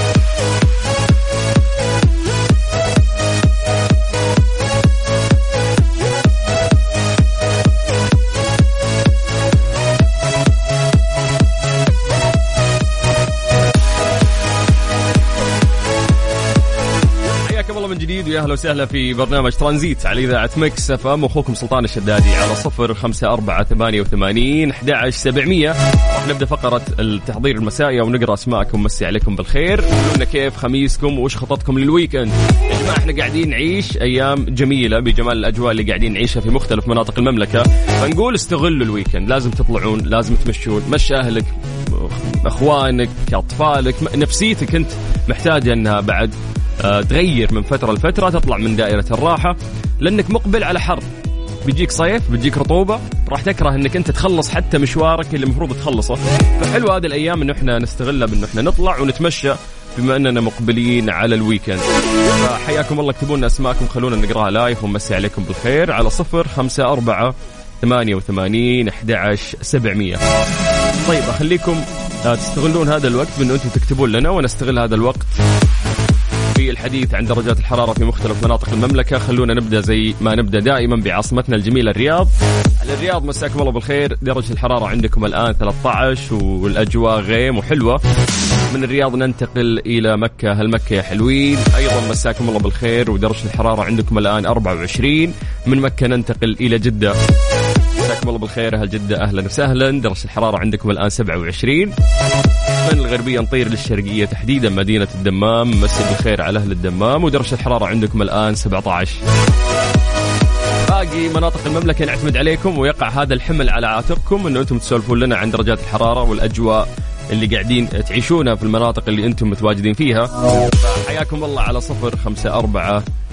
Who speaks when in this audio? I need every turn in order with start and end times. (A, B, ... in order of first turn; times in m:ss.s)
0:17.4-0:51.0 A
0:51.6-1:10.2 A
1:11.0-1:15.4 A
1:16.5-1:28.0 A
1:28.7-1:37.2 A
1:38.0-1:41.9 A
1:42.8-1:49.2 A
1:50.9-2:03.0 A